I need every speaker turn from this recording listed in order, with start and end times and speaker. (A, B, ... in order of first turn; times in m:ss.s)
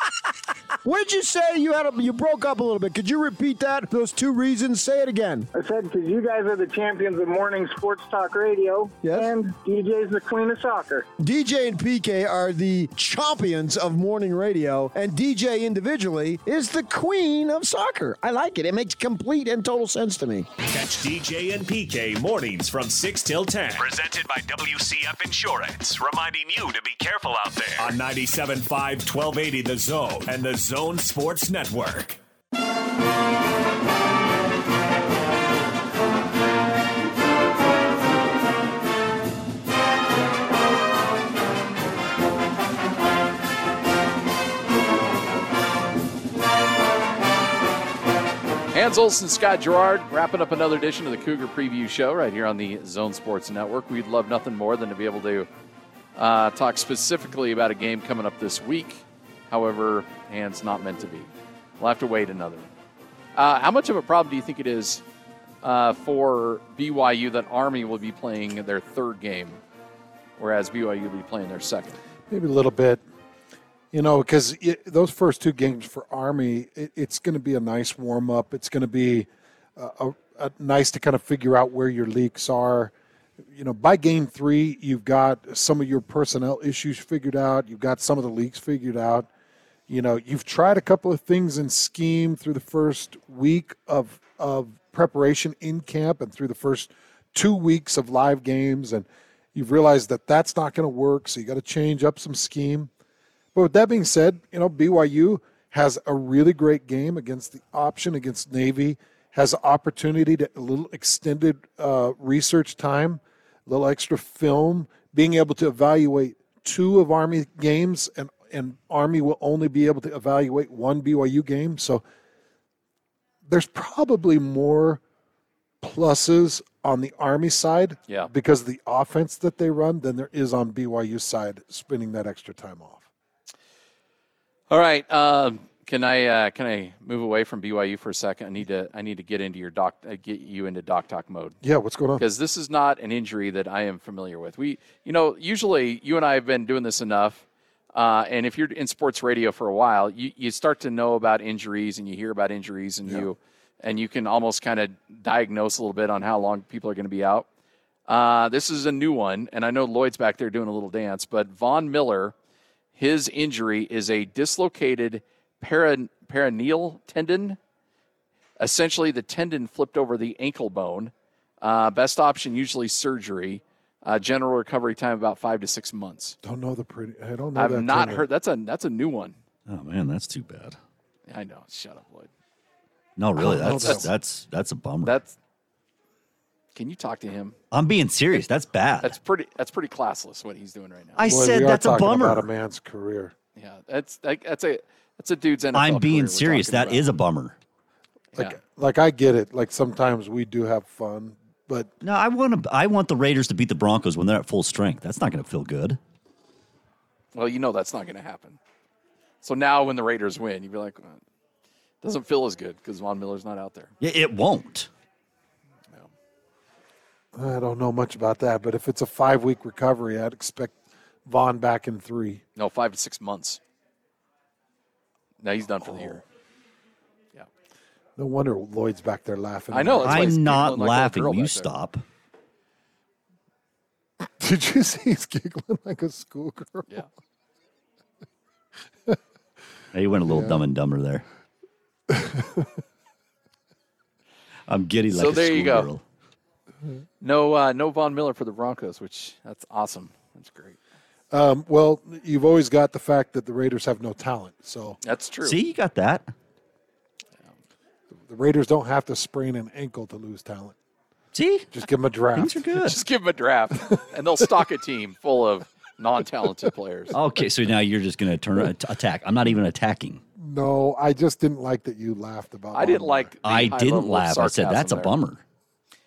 0:00.8-0:05.5 A
0:05.5-0:11.1 B
0:09.0-0:09.3 A
0:11.2-0:20.5 A
0:20.7-0:32.2 C
0:48.7-0:55.5 D
0:56.2-1:02.7 D
1:03.4-1:05.0 D
1:05.6-1:09.6 D
1:10.4-1:12.0 D
1:12.3-1:13.0 E
1:13.9-1:22.9 E
1:23.5-1:29.3 E
1:29.9-1:42.9 E
1:43.6-2:02.0 E
2:03.5-2:05.0 E
2:05.8-2:13.1 E
2:14.7-2:21.6 D
2:21.6-2:22.2 E
2:22.2-2:37.5 D
2:38.1-2:42.3 D
2:43.0-2:47.6 D
2:48.6-2:56.4 D
2:56.4-2:58.3 E
2:57.6-2:59.4 D
2:59.7-3:00.8 F
3:01.3-3:02.3 D
3:03.2-3:05.2 F
3:03.4-3:04.1 E
3:05.0-3:05.4 D
3:06.8-3:07.6 D
3:07.7-3:09.2 F
3:09.0-3:11.2 D
3:11.2-3:12.5 F
3:11.3-3:13.3 E
3:13.6-3:17.1 D
3:15.7-3:17.6 F
3:18.4-3:21.9 E
3:22.0-3:26.0 F
3:27.3-3:28.6 D
3:29.4-3:31.2 D
3:32.0-3:33.9 D
3:34.0-3:34.9 F
3:37.3-3:42.4 E
3:42.6-3:43.6 D
3:45.4-3:46.2 D
3:45.8-3:46.2 E
3:48.2-3:50.4 E
3:49.7-3:51.7 D
3:50.0-3:52.0 F
3:54.4-3:57.0 E
3:59.9-4:01.2 F
4:00.3-4:00.6 E
4:02.1-4:02.7 E
4:04.7-4:06.0 F
4:05.1-4:05.9 D
4:07.2-4:10.8 D
4:11.3-4:15.0 E
4:15.0-4:15.6 D
4:15.4-4:16.3 F
4:18.3-4:20.8 E
4:21.3-4:21.7 F
4:21.7-4:22.7 E
4:22.4-4:23.0 F
4:22.8-4:27.2 D
4:27.1-4:30.2 F
4:30.4-4:33.3 E
4:32.7-4:35.1 D
4:33.5-4:35.4 F